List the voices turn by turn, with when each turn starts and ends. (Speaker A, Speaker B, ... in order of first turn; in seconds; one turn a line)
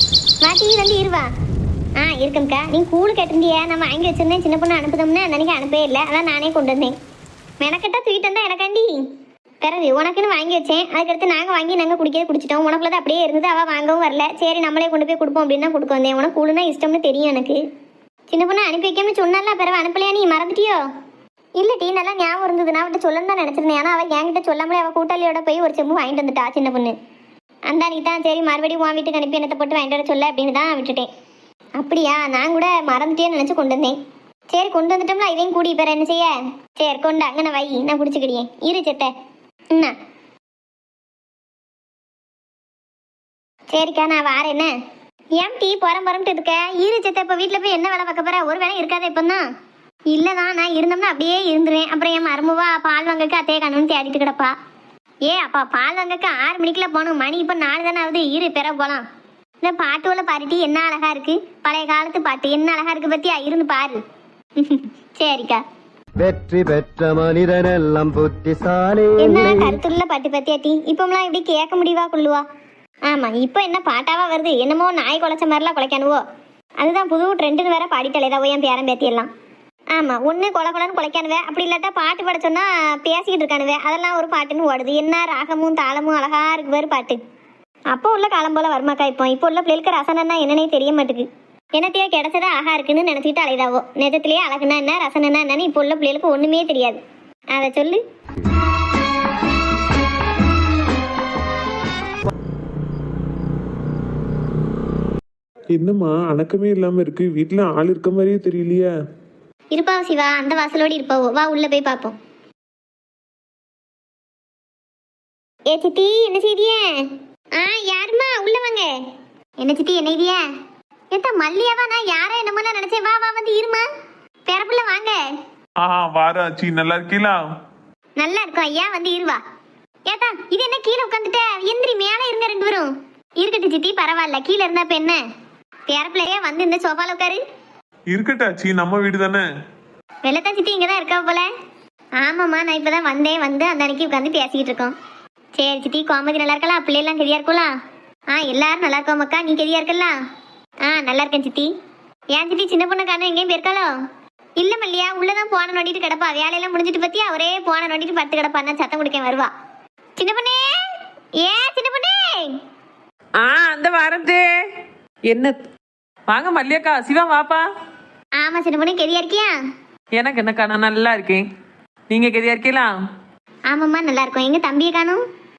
Speaker A: 0.4-1.3
Speaker A: 2.0-6.9
Speaker A: 7.6-8.9
Speaker A: 9.6-17.6
Speaker A: 18.3-20.8
Speaker A: 21.6-26.9
Speaker A: 27.7-31.1
Speaker A: 31.8-34.0
Speaker A: 34.5-39.1
Speaker A: 43.7-44.7
Speaker A: 45.4-49.4
Speaker A: 50.1-54.5
Speaker A: 55.2-59.0
Speaker A: 59.6-64.0
Speaker A: 64.6-65.6
Speaker B: 66.2-69.8
Speaker A: 69.2-72.4
Speaker A: 73.1-76.2
Speaker A: 76.8-79.3
Speaker A: 79.9-87.2
Speaker A: 87.9-97.0
Speaker A: 97.5-98.0
Speaker C: 105.8-108.9
Speaker A: 109.7-112.2
Speaker A: 115.7-117.0
Speaker A: 117.6-118.9
Speaker A: 119.6-120.4
Speaker A: 121.1-123.8
Speaker A: 124.5-125.2
Speaker C: 125.8-127.4
Speaker A: 128.2-129.4
Speaker A: 130.1-135.2
Speaker A: 135.9-137.4
Speaker C: 138.1-139.4
Speaker A: 140.2-141.5
Speaker A: 142.2-144.9
Speaker A: 145.6-147.7
Speaker A: 148.3-150.1
Speaker A: 150.8-151.7
Speaker A: 152.3-153.9
Speaker A: 154.6-159.5
Speaker A: 160.2-160.9
Speaker A: 161.4-162.6
Speaker D: 163.4-164.4
Speaker D: 165.3-165.5
Speaker D: 166.3-167.6
Speaker A: 168.4-169.5
Speaker D: 170.2-171.4
Speaker D: 172.1-172.9
Speaker A: 173.7-175.2